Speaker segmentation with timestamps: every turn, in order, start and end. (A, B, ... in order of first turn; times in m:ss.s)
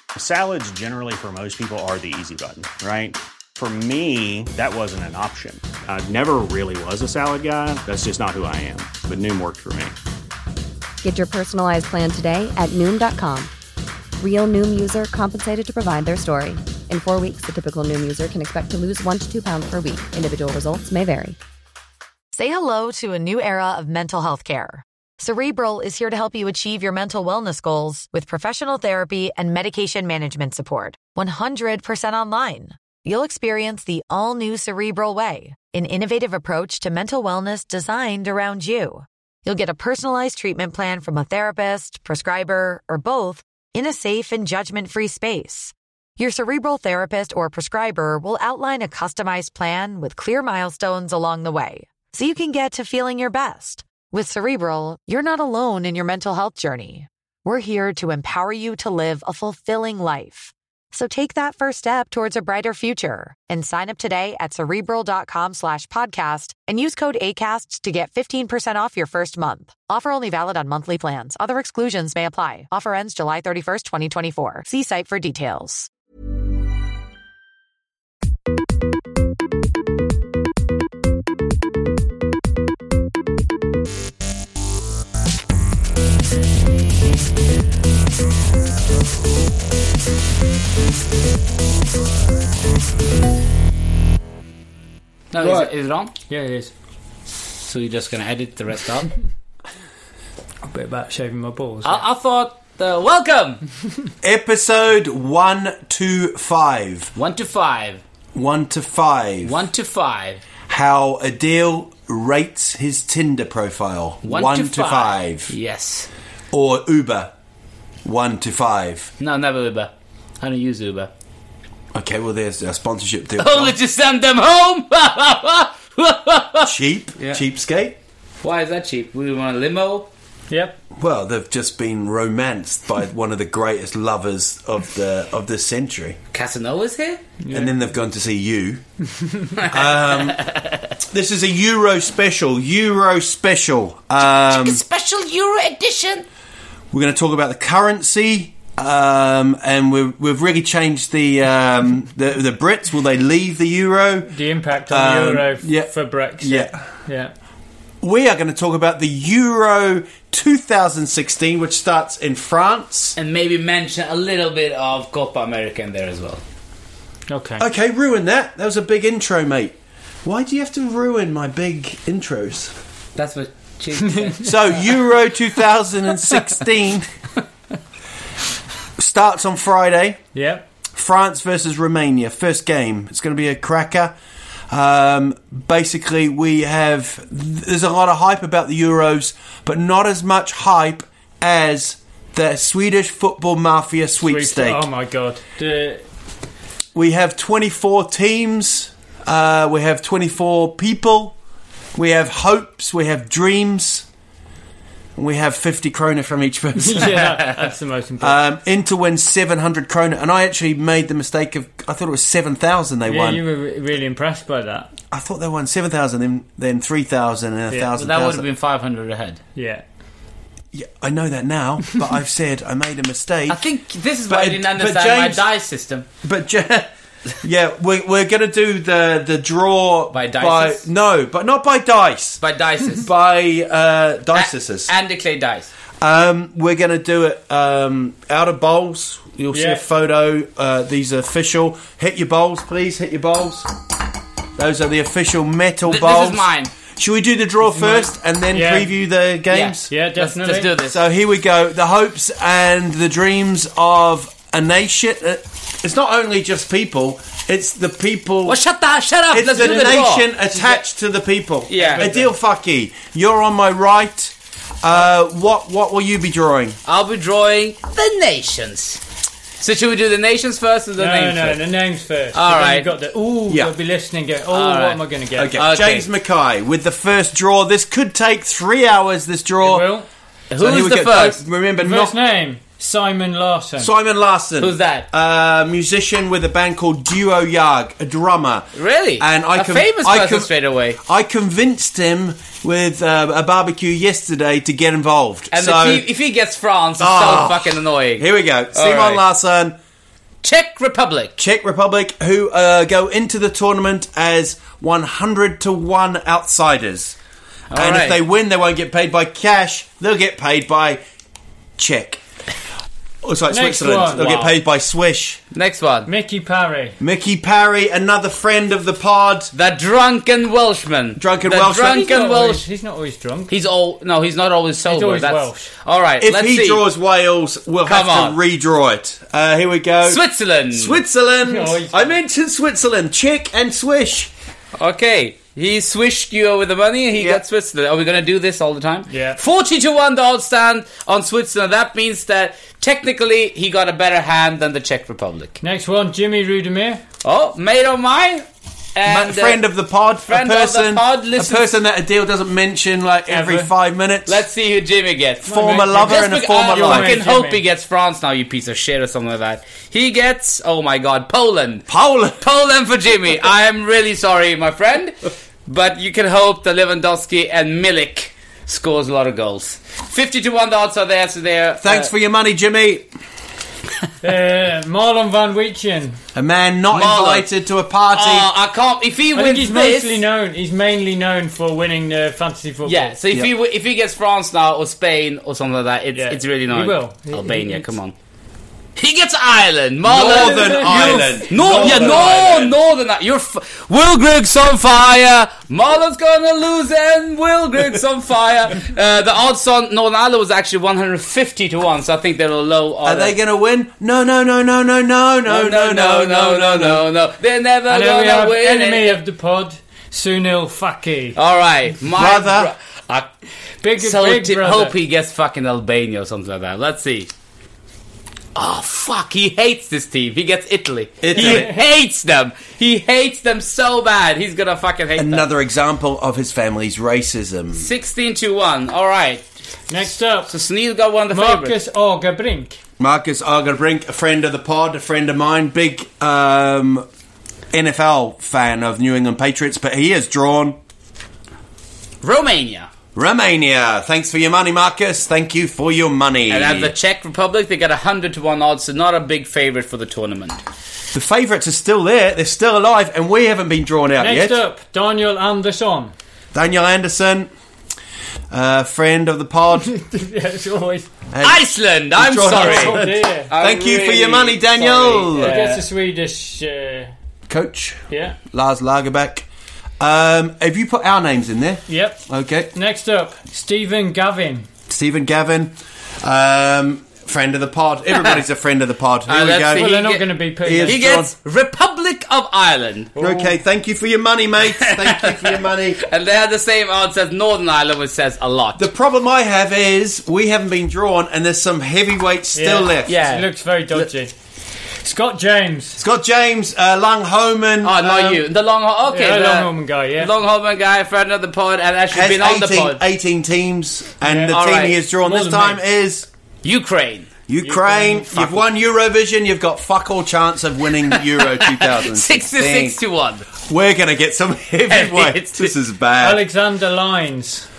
0:00.1-0:09.9 A
0:11.0-0:13.5 B
0:14.2-0:21.4 B
0:22.3-1:15.9 C
1:35.3-1:36.1 D
1:35.4-1:35.7 E
1:36.3-1:36.7 F
1:37.6-1:39.1 D
1:40.6-1:42.0 F
1:41.8-1:43.6 D
1:44.2-1:47.1 E
1:47.2-1:48.0 D
1:48.3-1:49.6 E
1:49.4-1:50.4 D
1:50.7-1:55.5 E
1:54.2-1:56.1 D
1:56.5-1:57.3 E
1:58.0-1:59.1 E
1:59.2-2:01.1 D
2:01.9-2:03.7 E
2:03.4-2:07.4 D
2:06.6-2:08.0 E
2:08.4-2:10.1 D
2:10.5-2:10.8 F
2:11.0-2:16.2 E
2:16.3-2:17.2 D
2:17.4-2:17.8 F
2:17.5-2:18.8 E
2:19.6-2:20.9 D
2:19.6-2:20.4 E
2:21.1-2:24.8 E
2:24.4-2:26.2 D
2:26.9-2:36.8 E
2:34.3-2:37.3 F
2:38.0-2:43.2 E
2:43.2-2:46.4 D
2:47.3-2:47.6 F
2:47.6-2:52.7 E
2:53.2-2:54.9 D
2:54.1-2:54.3 F
2:54.4-2:57.1 E
2:59.0-3:00.2 E
3:00.3-3:00.6 F
3:01.0-3:04.1 E
3:04.7-3:14.9 E
3:14.2-3:16.0 F
3:16.9-3:21.3 E
3:21.9-3:24.0 E
3:25.2-3:27.4 E
3:26.8-3:28.4 F
3:28.2-3:33.4 E
3:33.1-3:34.9 F
3:35.1-3:38.4 E
3:37.9-3:39.4 D
3:39.6-3:39.8 F
3:40.7-3:43.6 E
3:43.5-3:46.0 D
3:44.3-3:45.4 E
3:46.2-3:46.9 E
3:47.4-3:52.4 E
3:50.1-3:50.8 D
3:52.4-3:53.1 D
3:53.0-3:54.9 E
3:54.3-3:55.7 D
3:56.0-4:03.7 E
3:59.5-3:59.8 F
4:04.6-4:09.9 E
4:05.9-4:06.7 D
4:07.8-4:08.9 F
4:09.5-4:11.0 D
4:09.9-4:10.7 F
4:10.8-4:18.6 E
4:18.4-4:20.8 D
4:19.3-4:26.8 E
4:21.7-4:22.1 D
4:21.8-4:22.3 F
4:26.8-4:29.0 D
4:29.6-4:31.7 D
4:31.0-4:35.6 F
4:32.3-4:32.9 D
4:33.5-4:33.7 E
4:34.5-4:36.1 D
4:35.4-4:39.9 E
4:39.6-4:40.1 F
4:40.5-4:41.4 D
4:40.6-4:42.2 E
4:41.8-4:43.9 F
4:43.8-4:48.7 E
4:44.6-4:45.1 D
4:48.8-4:51.0 D
4:49.2-4:56.1 E
4:55.5-4:59.2 D
4:57.0-4:59.8 E
5:00.4-5:01.3 D
5:01.4-5:07.1 E
5:07.7-5:08.2 D
5:07.7-5:11.0 E
5:11.8-5:12.2 E
5:13.2-5:15.4 E
5:13.5-5:14.5 F
5:14.1-5:14.5 D
5:15.5-5:16.1 D
5:16.0-5:17.0 F
5:17.0-5:19.5 E
5:19.5-5:22.6 D
5:21.2-5:22.0 E
5:21.5-5:23.5 F
5:23.5-5:26.8 D
5:24.9-5:25.6 F
5:26.2-5:34.3 E
5:27.8-5:28.4 D
5:30.0-5:31.0 D
5:31.4-5:32.2 F
5:34.8-5:45.6 D
5:37.2-5:37.4 E
5:39.1-5:39.4 F
5:45.6-5:47.0 F
5:47.2-5:49.6 D
5:49.0-5:54.4 E
5:50.3-5:51.7 D
5:53.3-5:53.7 F
5:54.2-6:12.1 D
5:55.4-5:57.2 E
5:55.4-5:57.6 F
6:01.9-6:02.4 E
6:11.8-6:13.1 E
6:14.2-6:16.2 F
6:16.3-6:18.5 E
6:16.9-6:17.5 D
6:18.1-6:20.2 D
6:19.3-6:23.1 F
6:22.8-6:28.1 D
6:26.1-6:27.9 F
6:29.0-6:43.4 D
6:30.0-6:32.7 E
6:30.1-6:32.4 F
6:43.0-6:47.0 E
6:45.5-6:49.2 D
6:47.9-6:51.4 F
6:51.3-6:53.3 D
6:52.1-6:52.7 E
6:53.8-6:54.9 F
6:53.9-6:57.3 D
6:58.5-7:05.5 D
7:01.2-7:01.7 E
7:01.3-7:01.8 F
7:05.2-7:07.9 E
7:07.8-7:09.4 D
7:09.9-7:10.5 F
7:10.4-7:11.8 D
7:11.3-7:12.8 F
7:13.0-7:17.0 E
7:17.7-7:20.8 E
7:22.2-7:22.9 D
7:23.1-7:26.9 E
7:26.5-7:30.6 D
7:31.1-7:34.6 E
7:34.2-7:36.1 F
7:36.5-7:37.5 E
7:38.5-7:39.9 E
7:39.9-7:41.1 F
7:41.3-7:45.8 E
7:41.4-7:45.8 D
7:42.5-7:43.5 F
7:45.3-7:47.1 F
7:47.5-7:49.4 E
7:48.1-7:48.4 F
7:50.0-7:52.7 E
7:51.9-7:54.7 F
7:54.9-7:59.9 E
7:59.3-8:03.1 D
7:59.8-8:01.0 F
8:00.6-8:01.3 E
8:03.2-8:03.5 F
8:03.2-8:06.0 E
8:04.8-8:08.9 D
8:08.8-8:13.2 E
8:12.5-8:14.3 F
8:13.1-8:13.5 D
8:15.0-8:16.0 F
8:16.0-8:18.4 E
8:17.8-8:23.0 D
8:19.1-8:20.3 F
8:22.1-8:26.2 E
8:24.2-8:24.5 F
8:24.5-8:25.0 D
8:25.2-8:25.8 F
8:26.6-8:27.3 D
8:27.5-8:33.0 E
8:27.6-8:28.6 F
8:31.1-8:33.4 D
8:33.6-8:36.4 E
8:34.9-8:35.7 D
8:36.2-8:37.7 F